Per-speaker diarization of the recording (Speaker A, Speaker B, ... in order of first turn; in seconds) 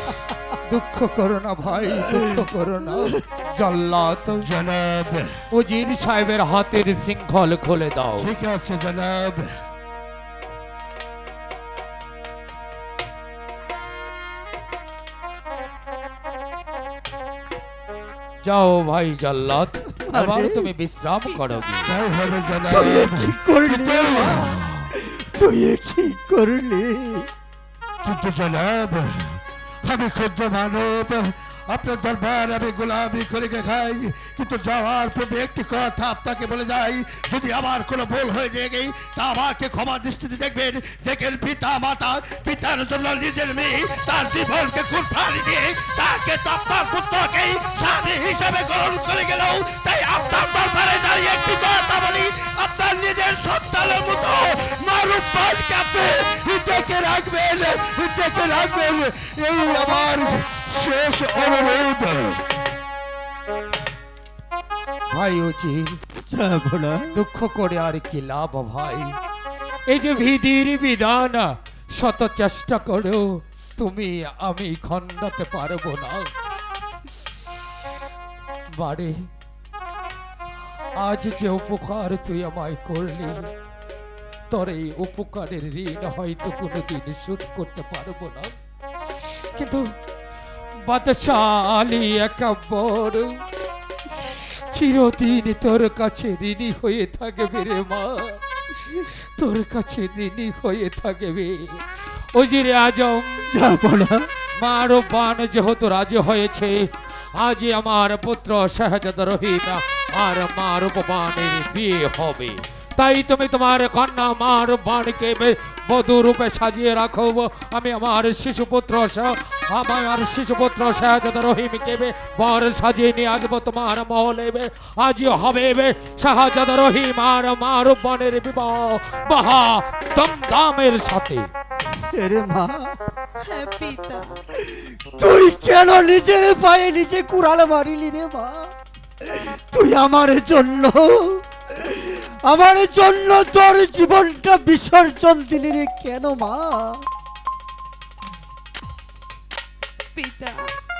Speaker A: 0.5-4.5, 5.5-8.3, 18.4-21.9, 65.1-66.0, 67.1-69.1, 69.9-73.2, 73.8-76.3, 78.8-79.1, 81.0-83.5, 84.5-88.5, 89.6-89.8, 90.8-93.3, 94.7-101.8, 102.3-103.5, 104.6-106.8, 107.3-131.5
Speaker B: 4.4-5.4, 8.2-9.5, 21.9-24.9, 28.0-62.4
Speaker C: 20.1-20.7, 22.7-27.3, 66.2-67.2, 103.5-104.3, 132.1-132.9, 134.7-138.7, 139.2-147.1
Speaker D: 21.3-21.9, 133.4-134.3, 150.2-150.7